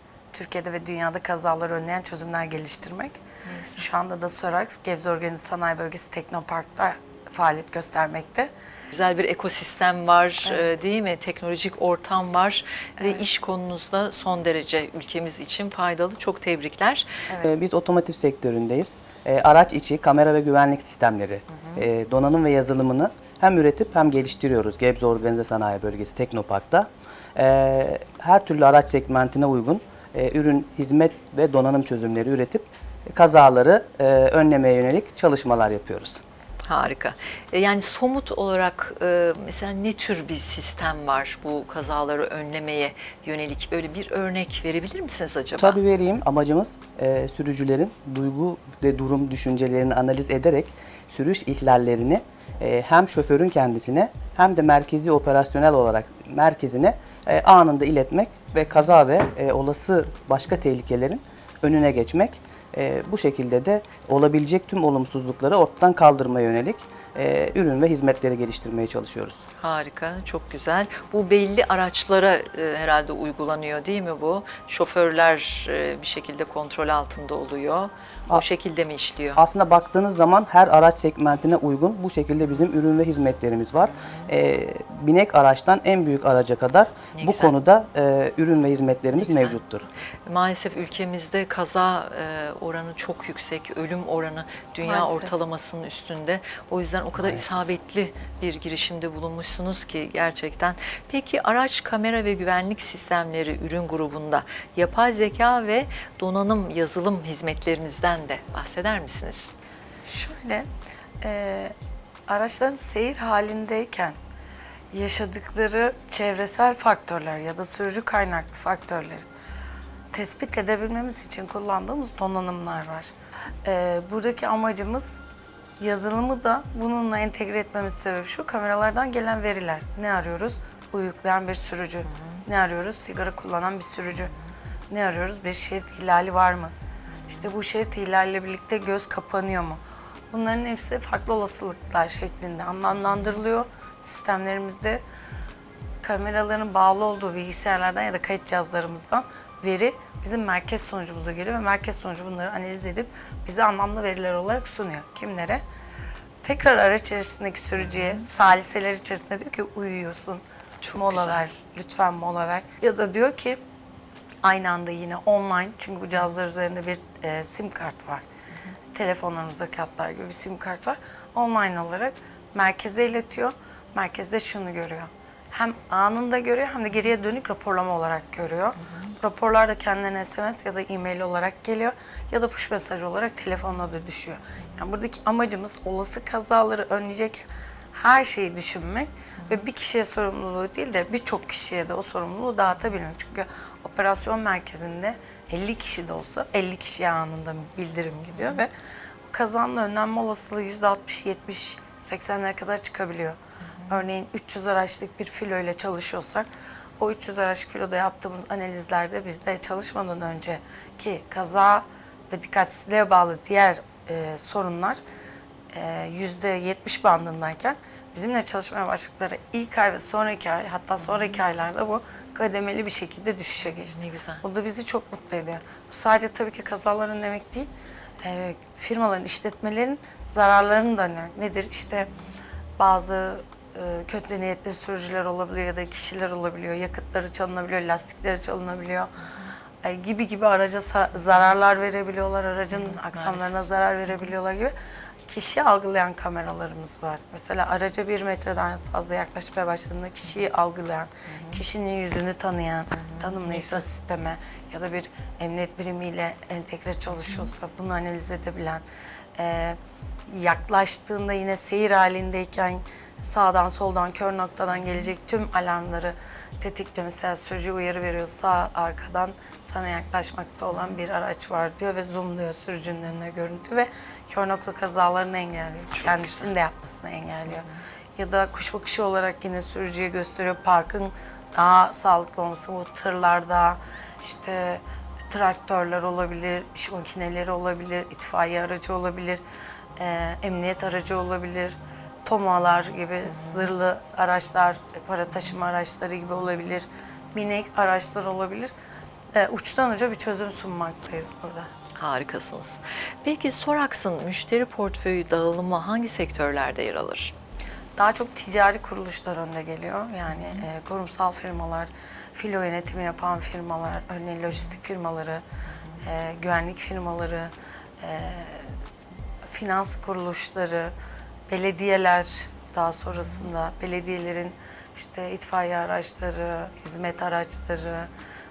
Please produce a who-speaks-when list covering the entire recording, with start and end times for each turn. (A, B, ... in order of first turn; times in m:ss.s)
0:00.3-0:03.2 A
0:03.4-0:03.8 B
0:03.8-0:08.5 A
0:08.9-0:17.2 B
0:10.4-0:10.7 A
0:13.0-0:13.3 A
0:17.4-0:36.2 C
0:21.5-0:21.8 B
0:36.6-0:45.8 B
0:45.6-1:09.4 C
1:09.6-1:19.4 B
1:19.4-1:29.9 C
1:23.9-1:24.3 B
1:27.2-1:27.5 B
1:29.2-1:29.6 B
1:30.3-1:49.5 B
1:34.8-1:35.3 A
1:37.2-1:37.4 C
1:50.0-1:50.7 A
1:51.2-1:51.7 A
1:52.3-1:54.2 A
1:54.9-1:59.2 A
2:00.1-2:03.1 A
2:03.6-2:05.2 A
2:05.8-2:14.3 A
2:12.1-2:12.4 B
2:14.9-2:16.8 A
2:17.3-2:25.0 A
2:26.0-2:35.6 A
2:36.4-2:43.6 A
2:40.8-2:41.5 B
2:44.4-2:48.2 A
2:48.9-3:18.7 A
3:19.3-3:26.5 A
3:23.8-3:24.0 B
3:27.0-3:35.0 A
3:35.7-3:47.7 A
3:43.6-3:44.4 B
3:48.2-3:52.1 A
3:52.8-3:59.1 A
3:59.8-4:04.7 A
4:02.7-4:03.5 B
4:05.3-4:18.8 A
4:11.3-4:11.6 B
4:12.9-4:13.8 B
4:19.4-4:49.4 A
4:35.9-4:36.5 B
4:37.5-4:37.8 B
4:50.0-4:58.7 A
4:53.3-4:53.7 B
4:59.3-5:01.7 A
5:02.0-5:07.3 B
5:08.0-5:15.4 A
5:10.4-5:10.6 B
5:16.0-5:18.8 A
5:19.4-5:20.9 A
5:21.5-5:28.1 A